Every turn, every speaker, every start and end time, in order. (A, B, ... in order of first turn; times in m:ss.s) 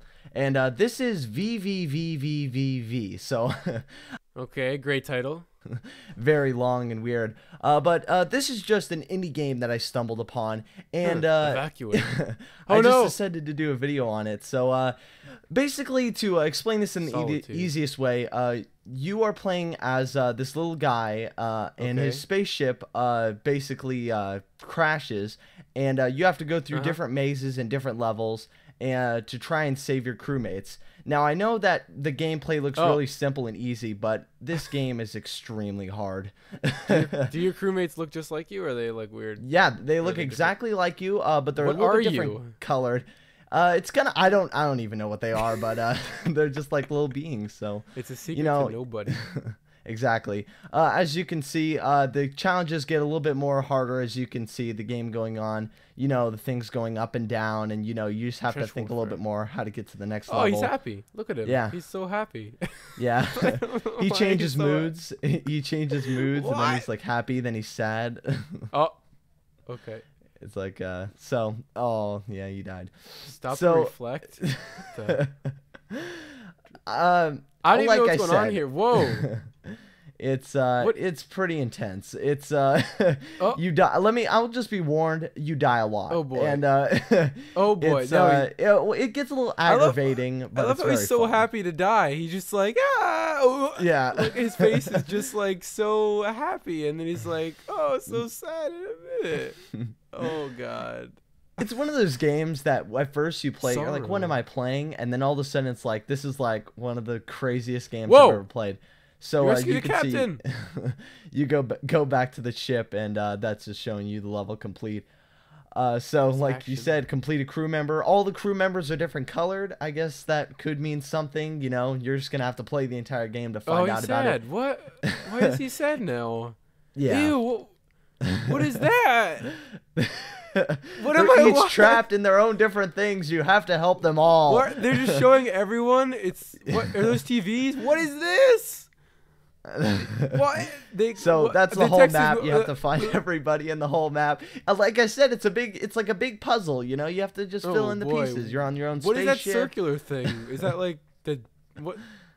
0:00.3-0:03.8 A
0:04.4-0:05.5 B
0:06.2-0:15.0 A
0:11.0-0:13.2 B
0:15.5-0:37.3 A
0:17.0-0:17.7 B
0:21.8-0:22.2 B
0:26.7-0:27.0 B
0:32.8-0:33.0 B
0:36.9-0:39.4 B
0:39.4-1:00.7 A
0:40.0-0:40.6 B
0:41.6-0:42.6 B
0:48.0-0:49.2 B
0:58.5-0:59.2 B
1:00.3-1:04.9 B
1:01.4-1:01.8 A
1:03.0-1:08.7 A
1:06.0-1:06.9 B
1:08.7-1:09.0 B
1:09.7-1:10.0 B
1:10.4-1:16.2 A
1:13.3-1:15.2 B
1:16.9-1:19.5 A
1:17.6-1:19.3 B
1:20.2-1:31.5 A
1:26.1-1:26.6 B
1:27.5-1:28.5 B
1:29.7-1:41.2 B
1:33.8-1:35.1 A
1:41.6-1:55.1 A
1:43.6-1:44.4 B
1:48.1-1:48.4 B
1:49.4-1:50.4 B
1:55.7-2:04.4 A
1:56.3-1:56.9 B
2:03.7-2:07.8 B
2:07.0-2:07.4 A
2:08.2-2:08.5 A
2:08.4-2:09.5 B
2:10.0-2:15.2 A
2:11.0-2:12.0 B
2:14.4-2:18.9 B
2:16.7-2:17.2 A
2:19.7-2:20.3 A
2:20.3-2:23.2 B
2:21.2-2:30.5 A
2:27.6-2:32.2 B